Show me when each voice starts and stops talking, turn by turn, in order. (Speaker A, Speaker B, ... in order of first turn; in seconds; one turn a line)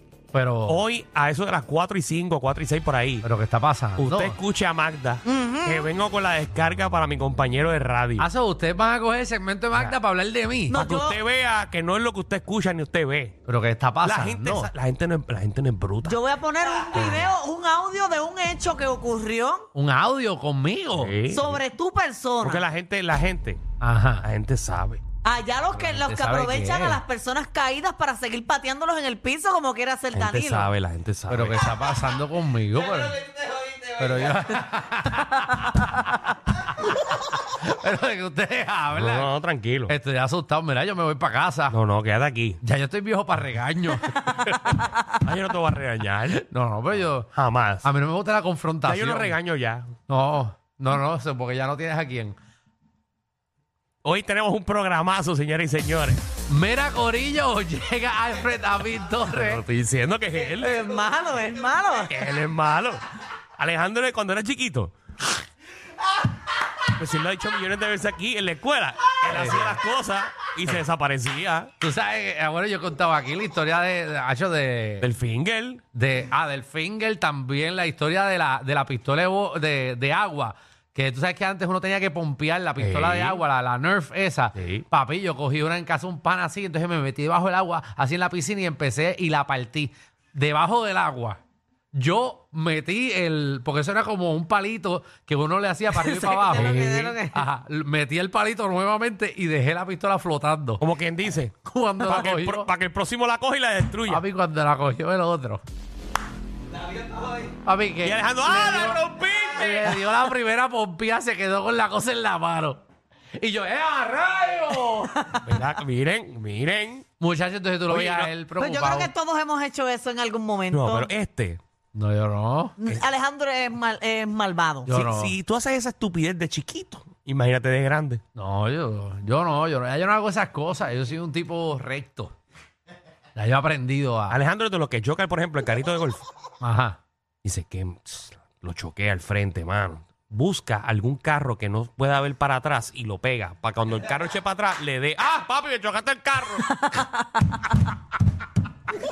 Speaker A: 0.3-0.8
Speaker B: 0.7-3.2
Speaker A: 3.2-4.4
Speaker B: 4.0-8.3
Speaker C: 5.2-5.9
Speaker A: 8.2-10.8
Speaker C: 10.7-11.2
Speaker B: 10.7-13.4
Speaker A: 13.5-14.7
Speaker B: 14.0-16.2
Speaker C: 16.1-19.7
Speaker B: 16.9-17.3
Speaker A: 19.8-21.1
Speaker B: 20.9-21.6
Speaker C: 21.3-22.6
Speaker B: 22.4-23.6
Speaker A: 23.8-24.2
Speaker B: 24.2-25.0
Speaker C: 25.2-30.7
Speaker A: 25.7-27.0
Speaker B: 30.1-31.6
Speaker A: 31.3-36.0
Speaker A: 37.3-39.3
Speaker B: 38.9-39.9
Speaker A: 39.9-41.8
Speaker B: 41.7-42.6
Speaker A: 42.6-44.9
Speaker B: 44.4-46.5
Speaker A: 46.3-47.3
Speaker B: 47.3-47.9
Speaker A: 47.8-49.4
Speaker B: 48.9-49.9
Speaker A: 50.1-52.4
Speaker B: 54.0-56.2
Speaker A: 56.5-59.6
Speaker B: 59.3-60.7
Speaker C: 60.6-62.3
Speaker B: 62.1-63.0
Speaker B: 63.6-64.9
Speaker B: 66.9-71.7
Speaker A: 69.3-69.8
Speaker A: 71.8-75.1
Speaker B: 75.0-75.8
Speaker A: 75.9-91.4
Speaker B: 82.8-83.4
Speaker B: 84.6-84.8
Speaker A: 91.9-100.8
Speaker C: 95.9-97.5
Speaker B: 96.5-97.2
Speaker B: 100.8-104.2
Speaker A: 101.7-102.7
Speaker A: 104.1-105.6
Speaker A: 107.7-112.8
Speaker B: 108.0-110.1
Speaker A: 113.4-115.3
Speaker B: 115.4-117.0
Speaker A: 117.2-119.1
Speaker B: 117.9-118.3
Speaker C: 118.6-121.1
Speaker B: 120.7-121.6
Speaker A: 121.9-122.8
Speaker C: 122.8-124.9
Speaker A: 124.9-125.4
Speaker B: 124.9-128.2
Speaker A: 128.3-132.3
Speaker A: 133.3-134.4
Speaker B: 134.3-136.3
Speaker A: 136.6-137.0
Speaker B: 137.4-146.9
Speaker C: 146.9-147.2